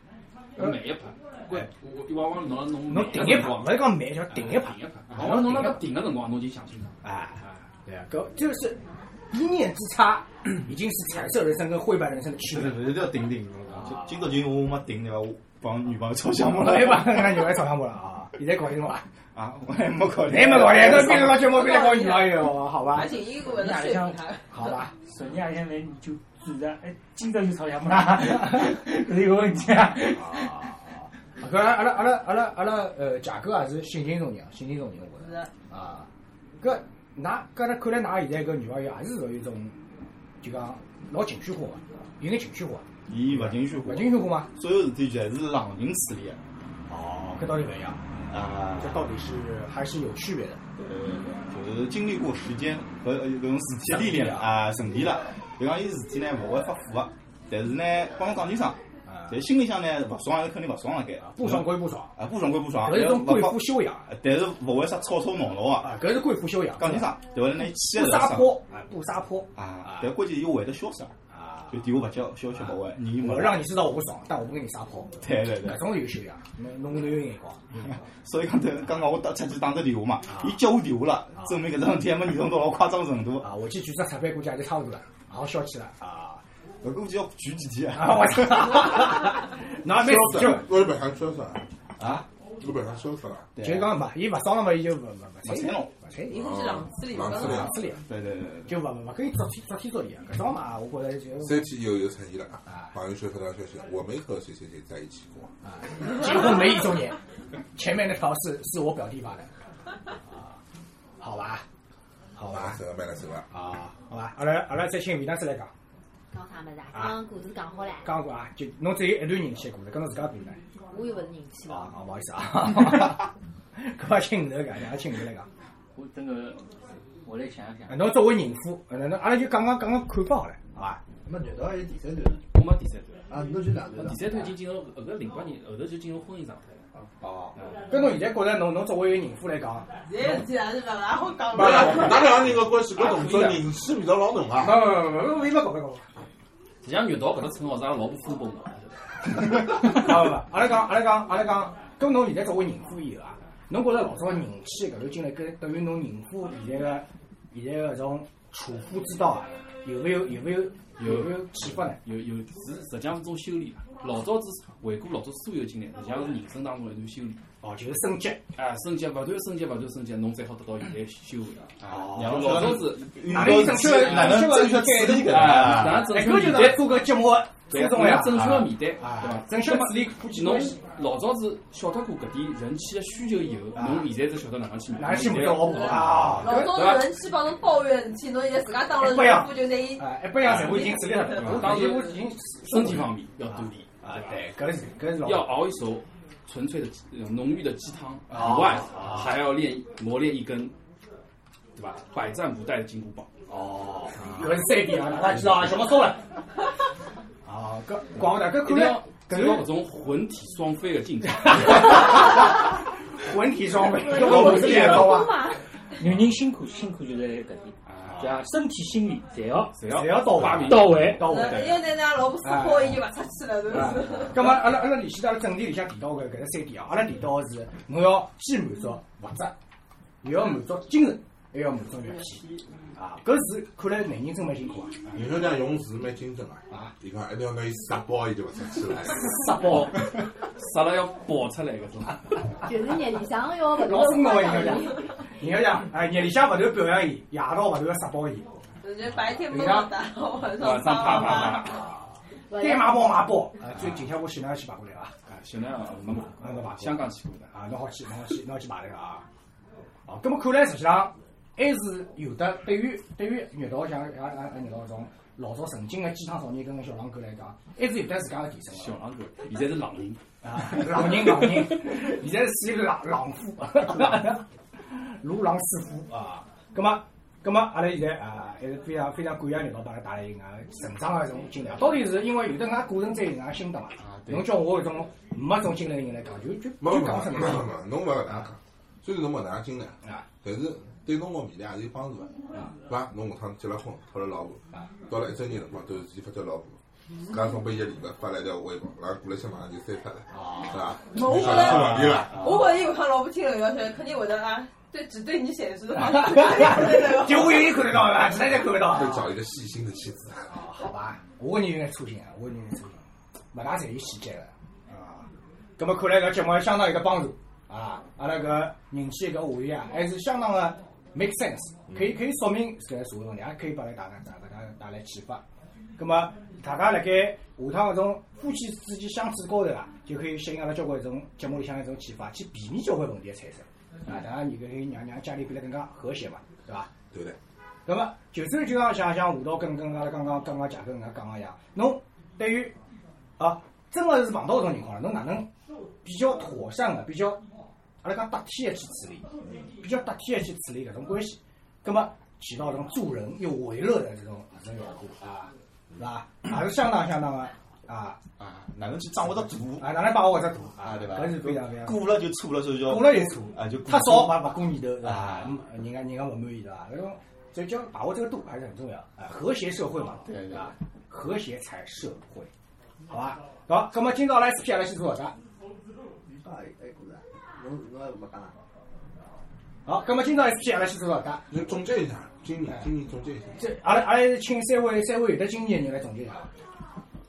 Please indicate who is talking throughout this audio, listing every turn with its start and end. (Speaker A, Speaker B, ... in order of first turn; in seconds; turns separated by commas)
Speaker A: 0.6-7.6, Speaker B: 2.9-5.8, Speaker B: 7.0-13.1, Speaker C: 12.5-17.6, Speaker B: 13.7-14.2, Speaker B: 16.4-19.1, Speaker C: 19.4-21.5, Speaker B: 20.3-23.2, Speaker D: 21.4-24.9, Speaker E: 23.5-24.2, Speaker B: 24.5-24.9, Speaker E: 24.9-30.5, Speaker B: 30.1-36.1, Speaker D: 35.2-35.5, Speaker B: 36.6-39.8, Speaker B: 40.4-44.5, Speaker C: 43.1-46.4, Speaker B: 46.9-48.0, Speaker C: 48.3-49.1, Speaker B: 48.7-50.6, Speaker C: 50.8-66.0, Speaker B: 53.9-54.6, Speaker B: 59.1-59.3, Speaker B: 61.2-62.2, Speaker B: 62.8-64.1, Speaker B: 65.8-70.1, Speaker C: 66.8-68.6, Speaker C: 69.6-71.1, Speaker B: 71.3-71.7, Speaker C: 71.7-73.8, Speaker B: 73.0-78.0, Speaker C: 75.2-76.0, Speaker C: 77.9-83.5, Speaker B: 80.3-80.5, Speaker B: 83.4-86.4, Speaker C: 86.8-89.1, Speaker B: 87.9-90.7, Speaker F: 89.9-91.7, Speaker C: 92.0-92.3, Speaker F: 92.6-93.5, Speaker C: 93.5-94.0, Speaker B: 93.6-96.6, Speaker C: 95.4-96.0, Speaker D: 96.2-97.8, Speaker F: 96.3-97.8, Speaker B: 97.2-98.0, Speaker C: 98.0-98.8, Speaker B: 98.7-101.7, Speaker F: 101.4-105.5, Speaker B: 102.7-102.9, Speaker B: 105.6-107.2, Speaker B: 107.8-109.5, Speaker B: 110.3-110.6, Speaker B: 111.2-111.7, Speaker B: 112.4-112.8, Speaker F: 112.4-113.5, Speaker B: 113.5-115.7, Speaker G: 116.3-118.1, Speaker B: 118.0-120.6, Speaker G: 120.9-122.0, Speaker B: 121.7-125.5, Speaker E: 125.9-126.6, Speaker E: 127.2-128.1, Speaker B: 127.9-131.0, Speaker H: 131.2-132.4, Speaker A: 132.5-133.3, Speaker H: 133.3-134.6, Speaker A: 133.9-137.9, Speaker B: 137.2-139.9, Speaker D: 140.1-142.3, Speaker F: 141.5-145.0, Speaker A: 142.9-143.7, Speaker B: 144.6-146.1, Speaker A: 146.8-149.0, Speaker B: 149.6-162.0, Speaker A: 161.0-167.4, Speaker B: 167.6-168.4, Speaker A: 168.6-174.4, Speaker B: 171.8-172.7, Speaker C: 171.9-176.1, Speaker B: 173.3-180.8, Speaker A: 175.2-177.0, Speaker A: 177.7-187.1, Speaker C: 178.4-178.7, Speaker B: 183.7-184.1, Speaker B: 185.0-186.9, Speaker D: 185.6-192.2, Speaker B: 189.0-193.1, Speaker A: 190.4-190.8, Speaker A: 191.3-194.3, Speaker B: 194.0-195.6, Speaker A: 195.2-200.8, Speaker B: 198.3-199.3, Speaker A: 201.8-203.3, Speaker B: 203.5-206.2, Speaker A: 204.2-204.4, Speaker B: 207.4-209.7, Speaker A: 208.2-212.3, Speaker B: 211.5-212.6, Speaker B: 213.2-215.3, Speaker G: 214.0-215.6, Speaker E: 214.5-215.0, Speaker E: 216.0-219.9, Speaker A: 217.9-218.4, Speaker A: 219.7-221.8, Speaker B: 219.9-221.7, Speaker E: 220.4-221.3, Speaker D: 221.2-224.6, Speaker B: 222.4-223.0, Speaker B: 223.7-229.6, Speaker B: 230.2-232.4, Speaker D: 232.1-232.6, Speaker B: 233.0-235.0, Speaker F: 235.1-239.5, Speaker B: 239.1-240.0, Speaker A: 239.7-242.4, Speaker G: 242.6-245.0, Speaker B: 243.8-248.5, Speaker D: 248.8-251.7, Speaker B: 249.5-249.9, Speaker A: 250.6-251.9, Speaker B: 251.1-255.1, Speaker G: 252.5-253.2, Speaker A: 255.3-257.5, Speaker B: 256.4-259.2, Speaker B: 260.1-269.0, Speaker A: 268.7-270.2, Speaker B: 270.4-287.7, Speaker A: 284.0-284.6, Speaker F: 286.8-302.5, Speaker B: 300.3-300.8, Speaker D: 301.1-307.7, Speaker B: 302.2-302.6, Speaker B: 306.0-309.3, Speaker F: 308.7-310.5, Speaker B: 310.5-325.4, Speaker F: 321.9-322.2, Speaker B: 326.0-336.9, Speaker F: 337.1-337.4, Speaker B: 337.9-342.8, Speaker B: 343.4-345.5, Speaker B: 346.0-347.4, Speaker B: 348.0-358.2, Speaker C: 358.4-360.0, Speaker B: 359.8-362.2, Speaker C: 360.8-365.6, Speaker B: 362.8-372.5, Speaker C: 370.2-370.7, Speaker B: 373.1-375.4, Speaker H: 376.2-378.6, Speaker B: 379.9-381.5, Speaker F: 381.5-383.6, Speaker B: 383.6-386.5